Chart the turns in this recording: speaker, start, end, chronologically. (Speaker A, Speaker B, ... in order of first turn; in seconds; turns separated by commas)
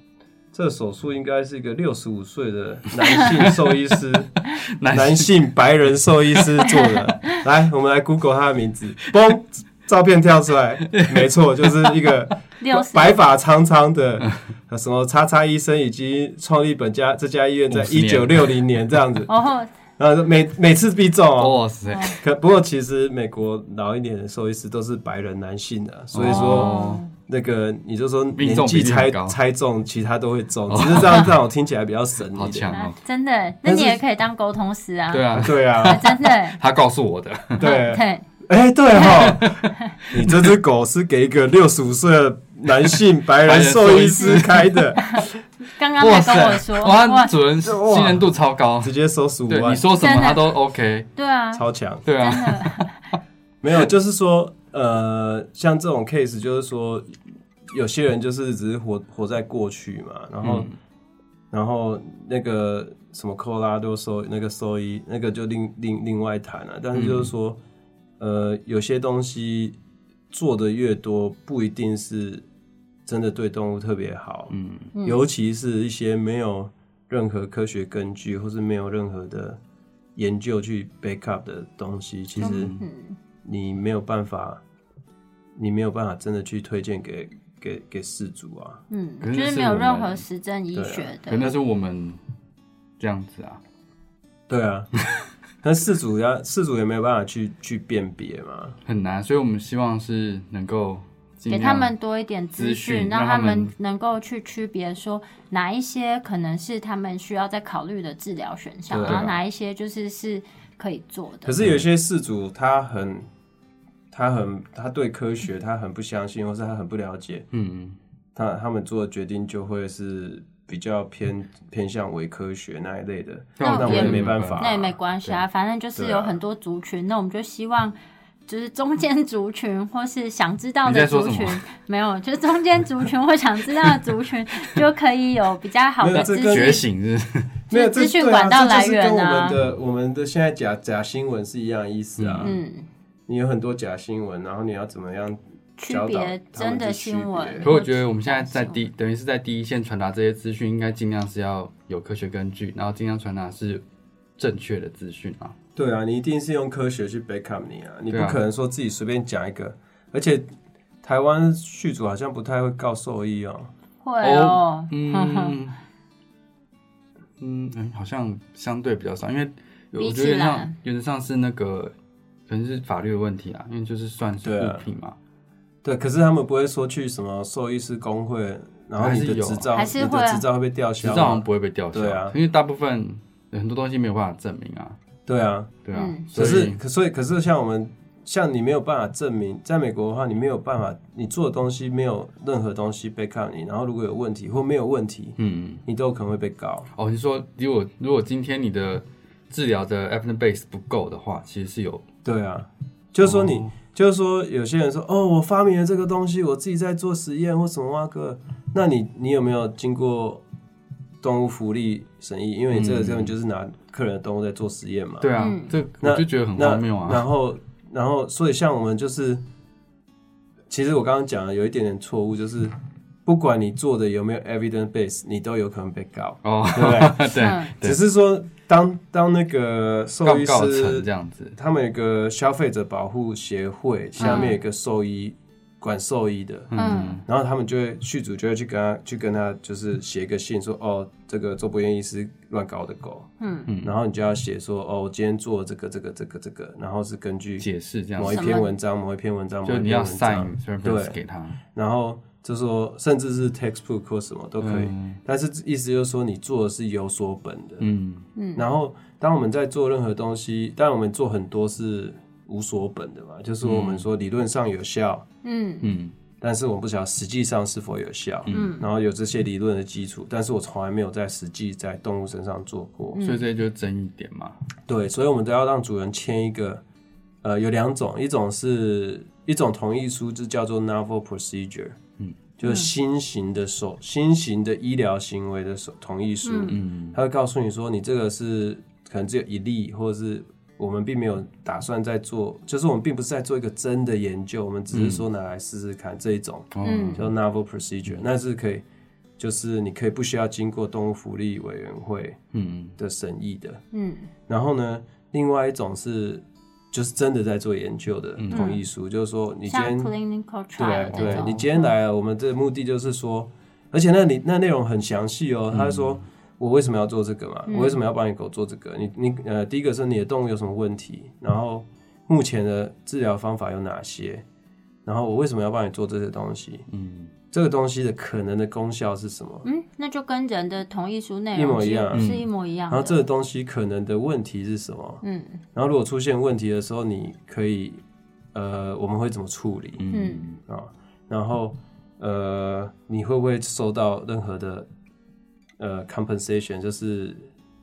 Speaker A: 0.5-4.3, Speaker B: 3.1-3.5, Speaker B: 4.6-5.3, Speaker A: 4.9-19.3, Speaker B: 10.9-12.1, Speaker C: 12.6-13.2, Speaker B: 17.7-18.6, Speaker C: 19.3-19.7, Speaker A: 20.0-21.6, Speaker B: 21.4-22.2, Speaker C: 21.9-22.2, Speaker A: 22.2-32.7, Speaker B: 26.1-27.1, Speaker C: 26.2-27.1, Speaker B: 28.4-29.4, Speaker B: 30.7-31.3, Speaker B: 32.4-33.0, Speaker C: 32.7-36.6, Speaker A: 33.6-34.0, Speaker B: 35.1-37.6, Speaker A: 35.4-36.0, Speaker A: 37.6-45.2, Speaker C: 37.6-38.3, Speaker B: 39.0-40.5, Speaker B: 43.4-45.0, Speaker C: 45.0-47.3, Speaker B: 46.0-49.0, Speaker A: 47.6-49.8, Speaker B: 49.5-51.1, Speaker C: 50.0-50.5, Speaker C: 51.2-51.6, Speaker A: 51.5-52.0, Speaker B: 52.0-52.9, Speaker C: 52.2-53.1, Speaker A: 53.6-57.2, Speaker A: 57.7-60.7, Speaker B: 60.4-60.7, Speaker A: 61.5-67.6, Speaker B: 66.9-67.3, Speaker A: 68.2-69.8, Speaker A: 70.3-72.5, Speaker A: 73.1-79.6, Speaker B: 74.5-74.9, Speaker C: 75.0-75.2, Speaker A: 80.2-82.8, Speaker B: 82.4-82.8, Speaker C: 82.4-83.2, Speaker A: 83.4-84.6, Speaker A: 85.6-88.8, Speaker C: 88.9-91.5, Speaker B: 89.2-90.2, Speaker A: 90.7-91.1, Speaker B: 91.2-92.2, Speaker B: 93.0-93.6, Speaker A: 94.5-94.9, Speaker A: 95.6-98.8, Speaker B: 98.8-101.9, Speaker C: 101.5-111.6, Speaker B: 102.6-103.7, Speaker A: 108.9-109.2, Speaker B: 109.0-109.4, Speaker A: 111.5-113.3, Speaker A: 114.1-117.5, Speaker B: 117.5-118.0, Speaker A: 118.3-125.0, Speaker B: 123.6-124.8, Speaker C: 123.6-128.0, Speaker A: 126.0-126.4, Speaker C: 128.5-136.8, Speaker B: 130.8-131.6, Speaker A: 136.0-136.7, Speaker B: 136.1-137.5, Speaker C: 137.7-139.6, Speaker A: 137.7-142.6, Speaker B: 142.2-142.6, Speaker C: 142.4-142.9, Speaker A: 143.3-147.7, Speaker C: 145.8-148.8, Speaker B: 147.6-153.8, Speaker B: 154.4-155.6, Speaker A: 155.8-160.5, Speaker B: 158.1-158.4, Speaker A: 161.0-163.7, Speaker C: 164.0-165.6, Speaker B: 164.2-165.8, Speaker B: 167.4-171.9, Speaker C: 170.0-170.7, Speaker B: 172.5-175.2, Speaker A: 174.4-174.8, Speaker A: 175.8-182.3, Speaker B: 179.0-179.7, Speaker C: 179.7-180.4, Speaker B: 181.0-185.0, Speaker A: 185.3-185.8, Speaker B: 185.8-186.8, Speaker C: 185.9-186.3, Speaker A: 186.3-196.9, Speaker B: 195.4-195.8, Speaker B: 196.9-202.1, Speaker A: 202.2-210.4, Speaker B: 203.2-203.7, Speaker A: 211.2-215.3, Speaker B: 212.7-213.3, Speaker B: 215.2-217.2, Speaker C: 215.4-215.7, Speaker A: 216.0-219.4, Speaker A: 220.7-222.8, Speaker A: 223.3-243.3, Speaker B: 226.4-228.0, Speaker C: 227.4-227.7, Speaker B: 230.2-231.6, Speaker B: 234.2-234.5, Speaker C: 234.2-234.6, Speaker B: 236.7-237.2, Speaker C: 236.8-237.2, Speaker C: 243.4-243.7, Speaker B: 243.7-244.0, Speaker A: 243.8-251.2, Speaker B: 247.6-248.5, Speaker C: 248.3-248.7, Speaker B: 249.7-251.6, Speaker A: 251.7-257.9, Speaker B: 254.6-255.2, Speaker B: 257.8-258.3, Speaker C: 258.4-258.6, Speaker A: 258.6-265.2, Speaker B: 263.6-264.1, Speaker C: 265.4-265.9, Speaker B: 265.8-266.1, Speaker A: 266.4-273.2, Speaker B: 268.5-268.8, Speaker C: 268.5-268.9, Speaker C: 273.1-273.4, Speaker B: 273.2-274.6, Speaker A: 274.9-276.8, Speaker A: 277.4-282.0, Speaker A: 282.6-298.8, Speaker C: 282.6-282.9, Speaker C: 286.4-286.8, Speaker B: 286.7-287.2, Speaker B: 294.9-295.2, Speaker B: 296.7-297.3, Speaker C: 296.8-297.2, Speaker A: 299.4-302.4, Speaker B: 302.5-303.0, Speaker A: 303.0-303.8, Speaker C: 303.9-304.3, Speaker A: 304.5-310.1, Speaker B: 308.4-308.8, Speaker C: 308.5-308.8, Speaker C: 309.7-311.9, Speaker A: 310.8-324.4, Speaker B: 311.1-311.6, Speaker B: 315.7-316.2, Speaker C: 317.7-318.0, Speaker A: 325.1-326.9, Speaker B: 326.9-327.3, Speaker A: 327.5-329.7, Speaker C: 329.6-333.2, Speaker A: 331.6-332.3, Speaker B: 332.1-332.5, Speaker A: 332.9-335.2, Speaker C: 335.2-335.6, Speaker A: 335.7-338.0, Speaker A: 338.5-344.9, Speaker B: 340.0-340.6, Speaker C: 340.1-340.5, Speaker A: 345.8-347.5